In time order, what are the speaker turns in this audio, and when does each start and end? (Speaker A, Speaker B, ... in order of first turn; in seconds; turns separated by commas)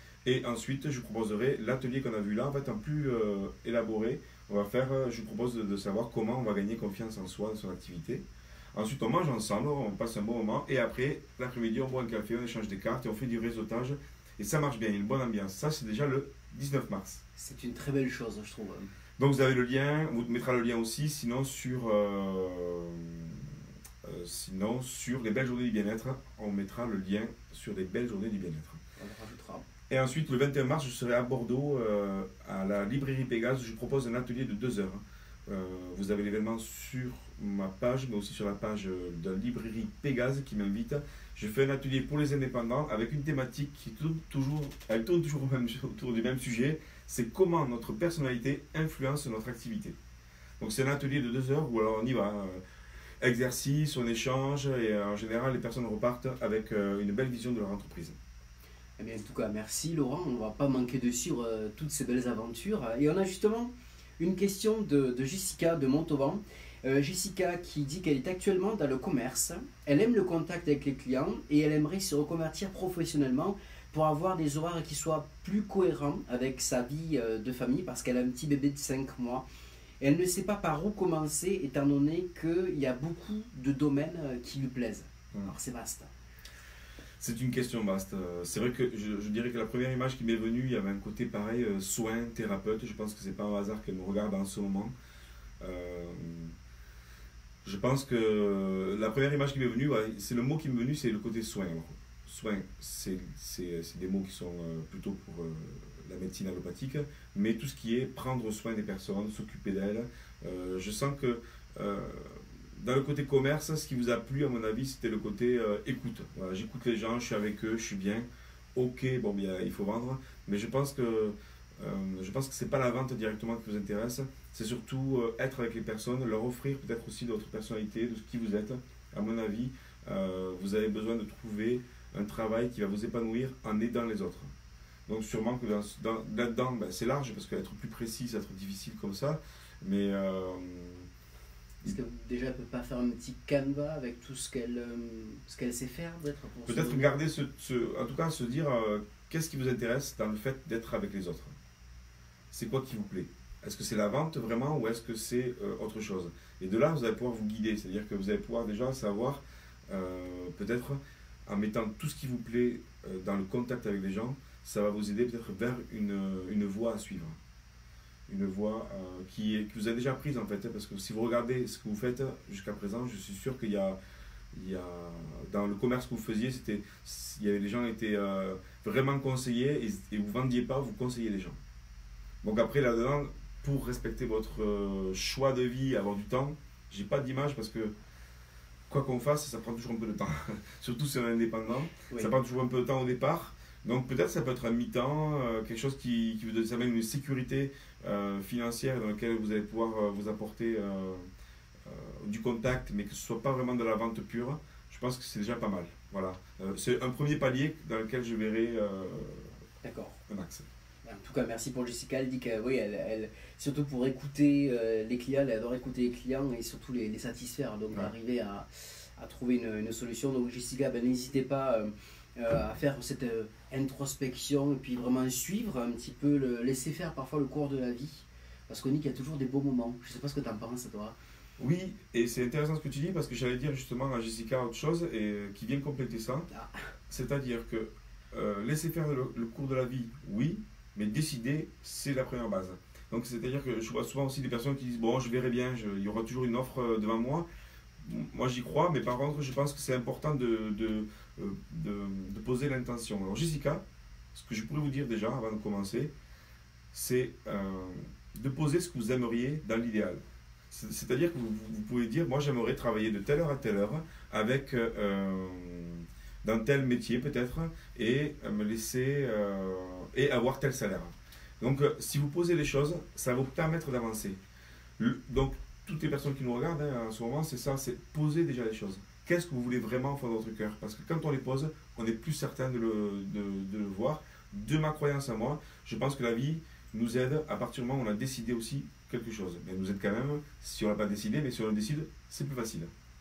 Speaker A: 0.2-17.2, Speaker B: 17.4-18.9, Speaker A: 19.2-28.8, Speaker B: 29.0-29.7, Speaker A: 29.9-50.0, Speaker A: 50.6-52.6, Speaker A: 53.2-58.2, Speaker B: 59.0-79.5, Speaker B: 80.0-86.1, Speaker A: 87.2-94.9, Speaker A: 95.6-96.5, Speaker A: 97.6-134.5, Speaker A: 135.1-141.1, Speaker B: 141.8-147.2, Speaker A: 146.7-151.6, Speaker A: 152.5-167.4, Speaker A: 168.3-174.0, Speaker A: 174.5-181.6, Speaker A: 182.4-187.9, Speaker A: 188.9-201.3, Speaker A: 201.8-209.5, Speaker B: 209.8-210.2, Speaker A: 210.3-210.7, Speaker B: 211.1-231.2, Speaker A: 231.6-236.5, Speaker A: 237.1-247.5, Speaker A: 248.0-253.8, Speaker A: 254.3-256.1, Speaker A: 256.9-274.4, Speaker A: 275.0-292.9